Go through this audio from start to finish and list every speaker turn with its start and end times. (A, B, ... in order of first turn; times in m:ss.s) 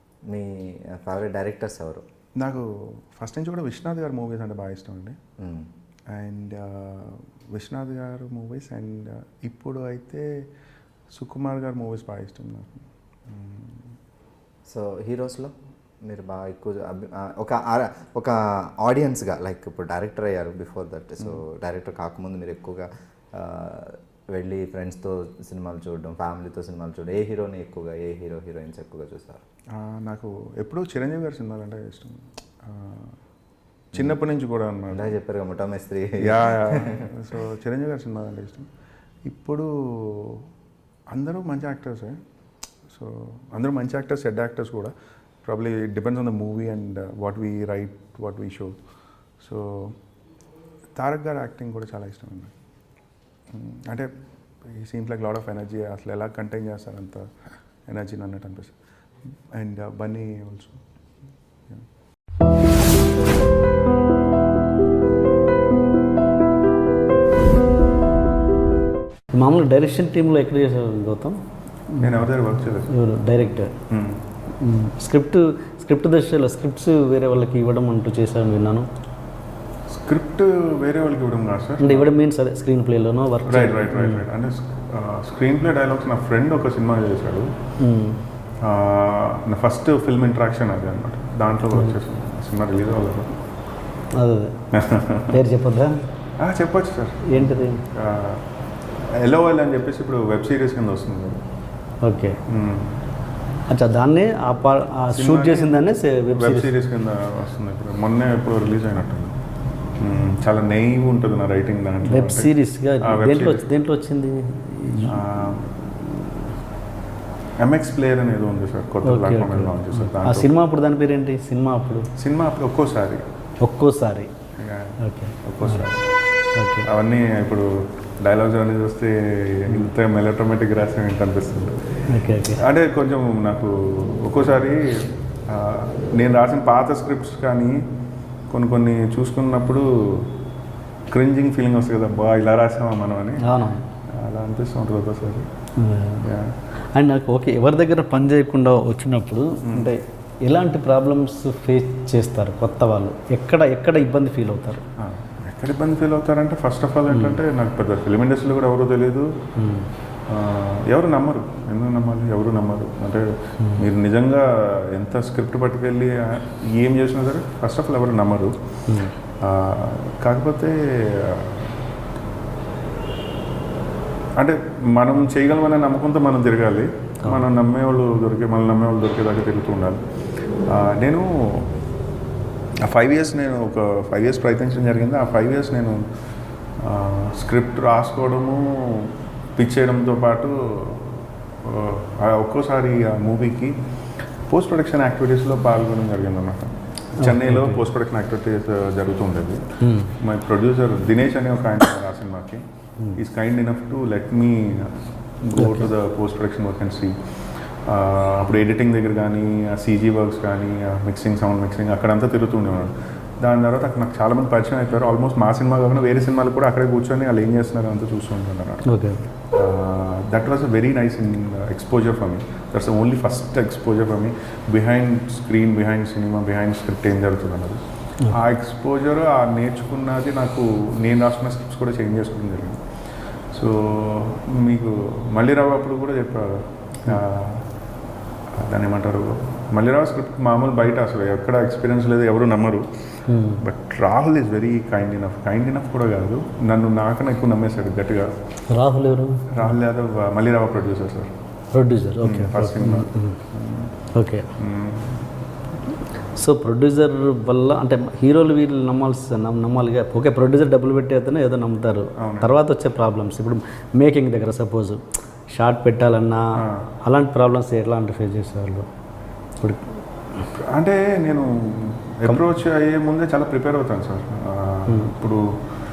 0:00.3-0:02.0 A
0:02.4-0:05.2 B
0:05.4-0:05.7 A
0:06.1-0:10.3 B
0:11.1-0:13.8 B
0:14.6-0:15.5 A
0:16.0-0:29.4 A
0:29.8-0:33.1 B
0:33.9-0:35.1 B
0:34.9-0:37.0 A
0:36.2-0:38.7 B
0:39.2-0:40.5 B
0:41.1-0:42.2 B
0:42.9-0:44.9 B
0:45.4-0:48.8 B
0:49.4-0:50.0 B
0:51.0-0:52.5 B
0:53.5-0:54.1 B
0:54.6-0:57.3 B
0:57.8-0:58.8 B
0:59.5-1:00.8 B
1:09.3-1:11.4 C
1:11.9-1:12.2 C
1:12.0-1:12.9 B
1:12.9-1:13.7 C
1:13.9-1:14.2 B
1:14.6-1:18.9 C
1:19.9-1:22.1 B
1:21.8-1:24.2 C
1:23.4-1:27.5 B
1:27.8-1:28.2 C
1:28.6-1:33.3 B
1:34.2-1:34.6 C
1:34.7-1:35.4 B
1:35.3-1:35.9 C
1:36.4-1:38.5 B
1:37.3-1:37.8 C
1:39.1-1:41.4 B
1:42.0-1:42.4 C
1:42.5-1:43.0 B
1:43.7-1:46.7 C
1:45.1-1:49.4 B
1:50.0-1:53.6 B
1:52.0-1:55.4 C
1:55.0-1:55.7 B
1:56.0-1:56.3 C
1:57.6-2:00.5 B
1:59.0-2:02.1 C
2:02.2-2:03.2 B
2:03.6-2:04.3 C
2:04.6-2:06.1 B
2:05.0-2:05.9 C
2:06.6-2:06.9 C
2:06.8-2:07.7 B
2:08.2-2:11.8 B
2:12.1-2:12.6 C
2:12.6-2:17.8 B
2:18.5-2:20.3 B
2:21.1-2:23.4 B
2:23.4-2:23.8 C
2:24.1-2:25.5 B
2:25.8-2:26.3 C
2:26.2-2:26.5 B
2:26.9-2:34.8 C
2:29.6-2:29.9 B
2:35.0-2:39.3 B
2:37.1-2:37.4 C
2:39.6-2:39.9 C
2:40.3-2:48.5 B
2:48.9-2:49.1 C
2:49.4-2:51.8 B
2:54.4-3:00.0 B
3:00.6-3:01.7 B
3:02.8-3:06.0 B
3:06.8-3:13.7 B
3:14.5-3:19.6 B
3:17.2-3:17.8 C
3:19.8-3:20.1 C
3:20.2-3:22.6 B
3:23.1-3:27.2 B
3:25.6-3:25.9 C
3:27.8-3:38.8 B
3:38.9-3:39.2 C
3:39.5-3:52.8 B
3:53.5-3:57.6 B
3:58.6-4:02.8 B
4:03.3-4:03.6 C
4:03.6-4:08.3 B
4:08.7-4:09.6 C
4:09.5-4:11.3 B
4:11.7-4:13.4 C
4:12.2-4:13.9 B
4:14.1-4:14.5 C
4:14.6-4:15.3 B
4:16.4-4:28.9 C
4:22.2-4:22.5 B
4:26.6-4:26.8 B
4:29.6-4:30.0 C
4:30.5-4:35.4 B